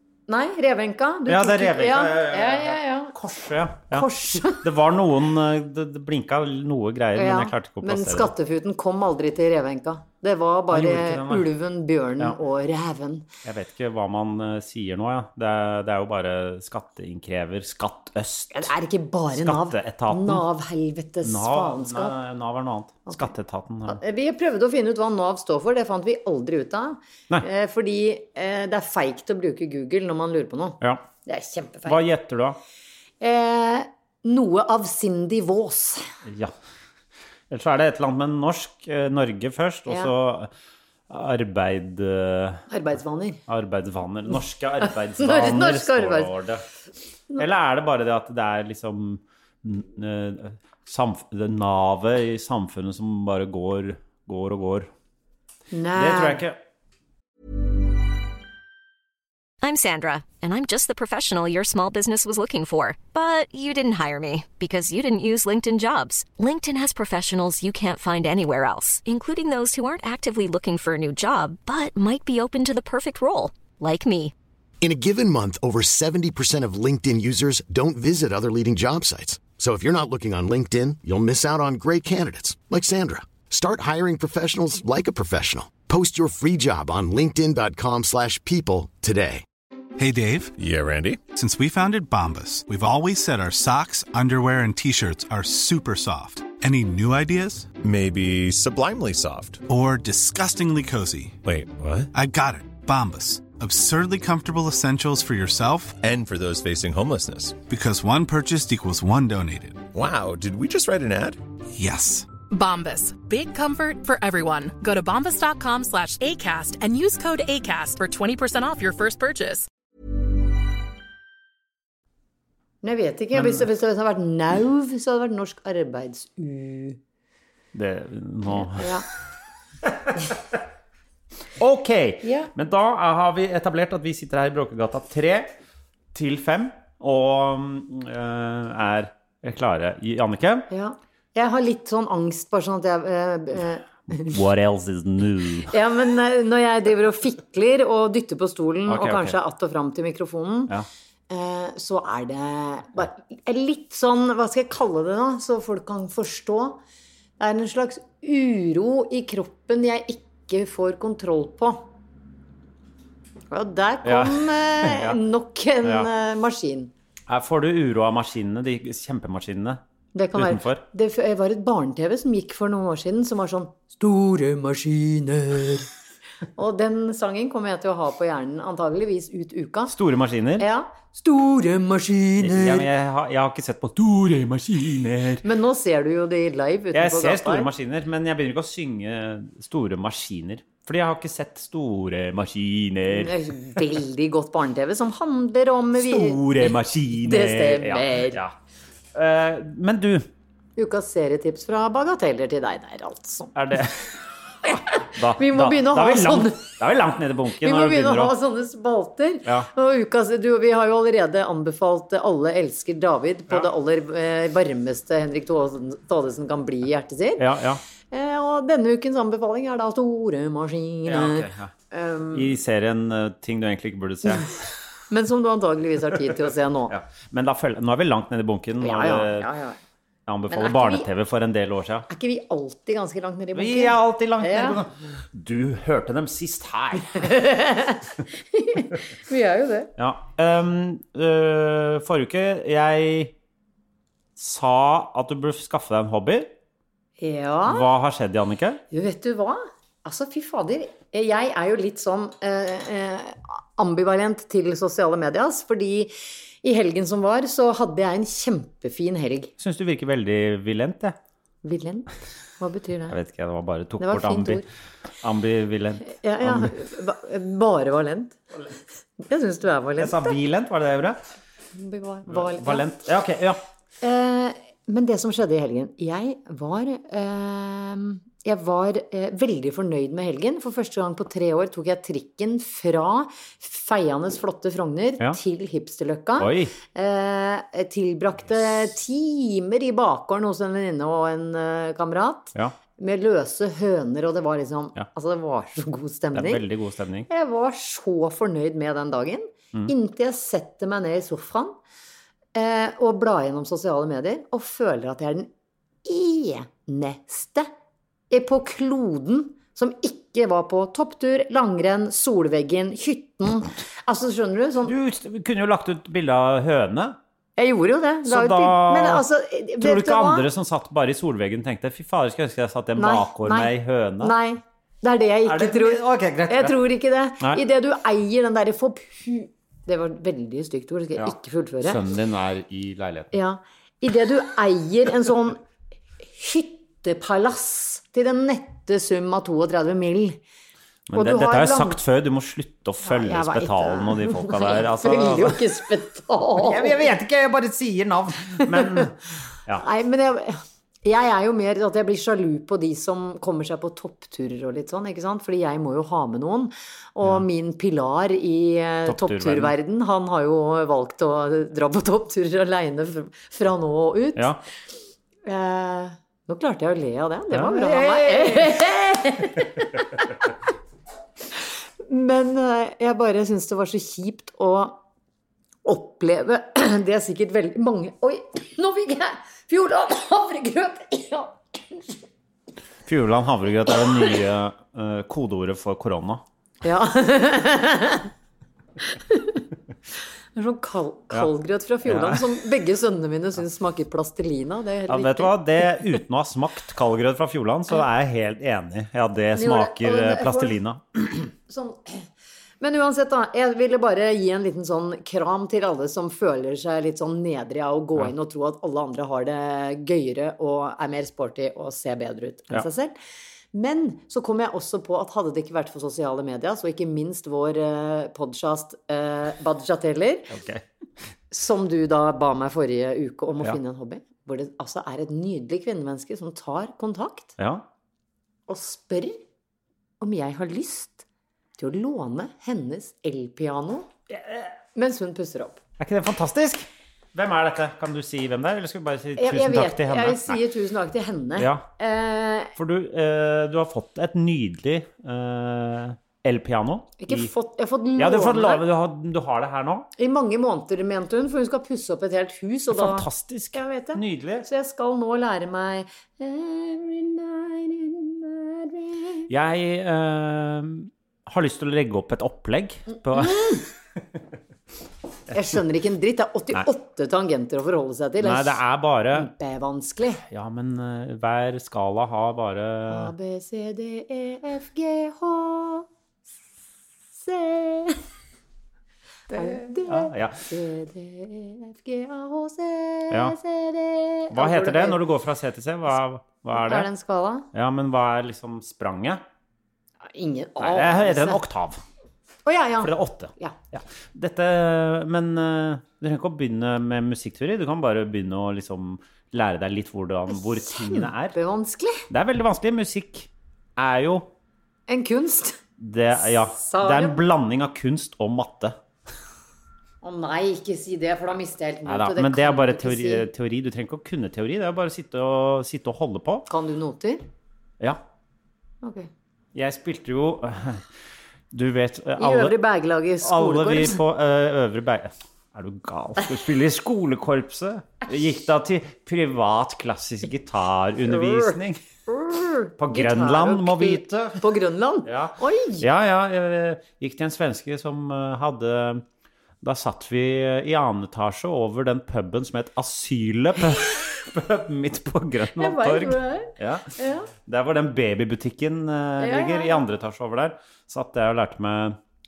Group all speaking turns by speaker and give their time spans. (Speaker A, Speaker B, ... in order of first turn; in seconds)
Speaker A: 0.3-3.1, 3.9-4.6, 7.1-13.3, 18.5-22.1, 23.9-32.0, 33.2-36.1, 42.7-43.4, 44.8-46.3, 55.7-56.4, 122.8-127.0, 128.5-129.0, 132.2-132.5, 140.7-144.4, 145.7-150.7, 151.3-156.8, 157.4-161.8, 163.5-166.9, 170.1-175.9, 176.6-179.9, 180.6-182.9, 185.4-187.7, 193.1-198.4, 200.8-203.5, 204.6-206.7, 207.6-217.4, 218.1-222.5, 225.1-226.9, 228.8-229.8, 230.5-231.1, 232.1-234.8, 237.1-239.9, 247.2-247.9, 248.9-256.1, 256.6-259.5, 261.6-262.1, 262.6-263.1, 264.0-264.6, 266.1-268.4, 269.2-270.3, 271.7-272.8, 274.0-296.6, 297.3-301.8, 302.5-305.5, 306.0-307.7, 308.3-314.9, 317.6-320.4, 323.0-332.0, 333.3-335.6, 336.2-340.4, 341.1-342.0, 343.0-347.0, 348.6-349.1, 349.8-364.5, 365.4-370.3, 371.6-375.0, 375.8-382.2, 386.8-388.3, 389.0-389.6, 390.5-396.0, 399.5-400.8, 401.7-402.3, 402.8-413.1, 413.7-420.5, 421.5-427.5, 428.7-429.4, 430.2-431.2, 431.8-434.1, 434.9-435.8, 439.4-442.7, 447.2-448.8, 450.1-459.5, 463.3-463.8, 465.5-468.8, 469.3-470.4, 473.1-476.1, 477.4-478.2, 479.5-485.2, 486.7-487.6, 490.3-491.6, 492.6-493.8, 500.5-502.2, 505.1-505.8, 506.4-507.4, 510.2-513.5, 516.7-517.4, 519.0-519.3, 522.4-524.2, 531.2-536.0, 545.7-547.5, 549.4-550.0
Speaker B: 1.2-8.3, 10.7-11.5, 13.4-18.7, 19.3-20.4, 21.2-24.0, 31.9-32.6, 36.2-36.5, 37.5-40.5, 41.1-42.6, 43.5-46.6, 47.4-54.9, 56.0-56.5, 123.3-123.6, 127.7-129.0, 131.6-135.5, 136.1-140.7, 144.2-145.7, 148.9-149.4, 164.0-165.2, 165.8-166.1, 167.3-169.8, 170.3-170.8, 179.9-180.7, 182.4-185.4, 186.9-193.8, 195.9-198.5, 199.1-200.3, 203.5-204.1, 205.0-208.3, 217.4-217.8, 221.1-221.7, 222.3-224.6, 226.9-229.5, 230.3-232.1, 233.5-237.3, 240.0-243.3, 244.4-246.5, 247.7-248.8, 259.6-261.2, 263.1-264.6, 265.2-266.7, 270.0-271.2, 272.3-273.6, 286.4-286.8, 296.3-297.3, 314.9-317.1, 318.2-319.2, 319.8-324.3, 325.4-326.8, 331.2-333.3, 341.1-345.6, 346.6-349.8, 359.1-359.7, 367.5-368.8, 383.1-386.4, 392.0-392.5, 395.1-401.5, 420.5-420.8, 427.6-427.8, 434.3-434.7, 436.0-440.6, 441.6-441.8, 442.8-447.5, 448.2-450.1, 452.9-454.7, 459.5-463.8, 468.4-469.5, 470.5-473.3, 480.1-480.6, 484.5-487.1, 487.7-489.4, 490.8-492.0, 493.0-501.5, 502.3-504.5, 506.0-508.9, 512.1-516.7, 519.7-521.0, 521.7-522.8, 523.4-532.0, 533.0-534.6, 535.2-539.2, 539.8-552.2
Speaker C: 59.6-74.3
Speaker D: 74.8-89.4
Speaker E: 90.0-90.5, 91.3-97.7, 99.7-101.4, 102.1-106.0, 107.7-109.8, 111.7-112.3
Speaker F: 90.6-91.2, 97.8-99.6, 101.4-102.1, 106.0-107.6, 109.9-111.4
Speaker G: 112.5-119.7